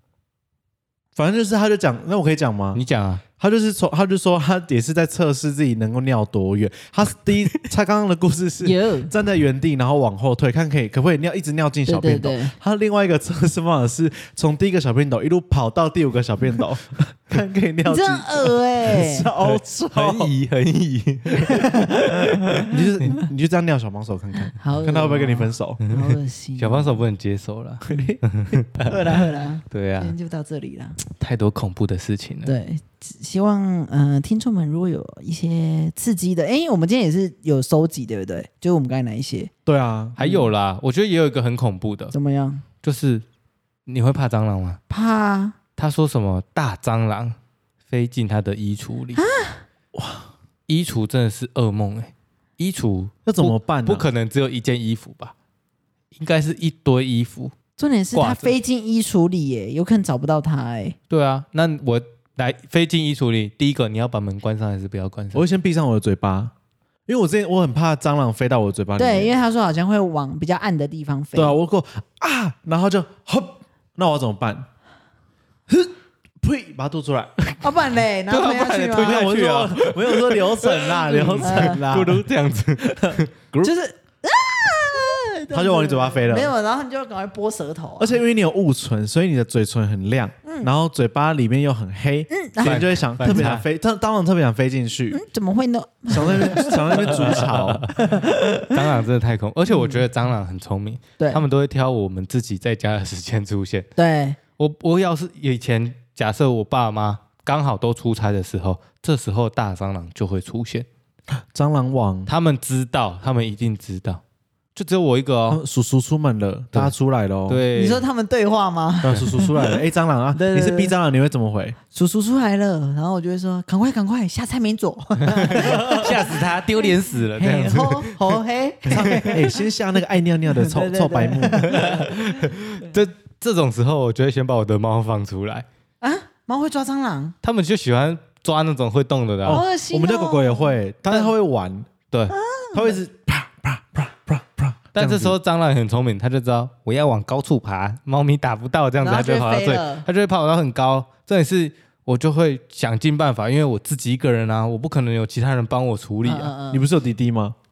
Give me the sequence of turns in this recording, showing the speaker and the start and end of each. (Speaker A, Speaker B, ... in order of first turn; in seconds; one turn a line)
Speaker A: 1.2-2.8
Speaker B: 2.7-3.2
Speaker A: 3.4-20.3
Speaker C: 8.6-9.1
Speaker C: 11.9-12.6
Speaker C: 17.9-19.3
Speaker B: 19.4-23.1
Speaker C: 21.5-22.6
Speaker A: 22.7-25.8
Speaker C: 24.5-27.0
Speaker B: 25.8-28.9
Speaker A: 27.8-28.2
Speaker C: 28.9-31.0
Speaker B: 29.7-30.1
Speaker B: 31.0-32.5
Speaker C: 32.5-39.5
Speaker A: 39.7-40.2
Speaker B: 40.2-42.1
Speaker C: 40.2-40.5
Speaker C: 42.1-42.6
Speaker B: 42.8-43.2
Speaker B: 43.9-44.8
Speaker C: 44.9-45.6
Speaker B: 45.8-47.4
Speaker B: 47.9-49.2
Speaker C: 49.2-49.6
Speaker A: 49.9-50.3
Speaker B: 50.7-55.3
Speaker A: 53.3-54.1
Speaker B: 56.2-57.5
Speaker C: 57.8-61.0
Speaker B: 58.1-58.6
Speaker B: 61.1-65.4
Speaker A: 65.3-66.5
Speaker A: 67.1-69.3
Speaker C: 69.0-71.6
Speaker A: 71.3-74.7
Speaker A: 75.7-77.3
Speaker C: 77.6-79.3
Speaker B: 78.3-83.7
Speaker A: 79.0-82.2
Speaker C: 81.4-81.9
Speaker A: 82.9-83.2
Speaker C: 83.6-88.2
Speaker A: 85.5-86.5
Speaker A: 88.0-95.2
Speaker C: 90.5-90.7
Speaker C: 92.3-93.5
Speaker B: 92.6-93.6
Speaker C: 95.1-97.2
Speaker A: 96.1-97.9
Speaker B: 97.1-98.0
Speaker C: 98.0-98.8
Speaker B: 98.6-103.9
Speaker C: 99.7-100.0
Speaker C: 104.0-104.4
Speaker B: 104.6-110.9
Speaker A: 111.3-112.3
Speaker B: 112.3-114.2
Speaker B: 114.8-115.6
Speaker A: 115.5-117.6
Speaker B: 117.5-118.0
Speaker C: 117.7-119.8
Speaker A: 119.0-121.8
Speaker C: 120.3-120.9
Speaker C: 121.9-129.6
Speaker B: 125.3-128.2
Speaker A: 125.6-126.0
Speaker A: 128.9-132.0
Speaker C: 130.5-132.4
Speaker B: 131.7-135.7
Speaker C: 136.0-137.3
Speaker B: 137.4-139.6
Speaker A: 139.4-141.9
Speaker C: 139.5-140.7
Speaker C: 142.3-143.0
Speaker A: 142.7-145.4
Speaker B: 144.9-156.5
Speaker C: 149.0-150.1
Speaker C: 156.2-156.9
Speaker A: 156.7-157.6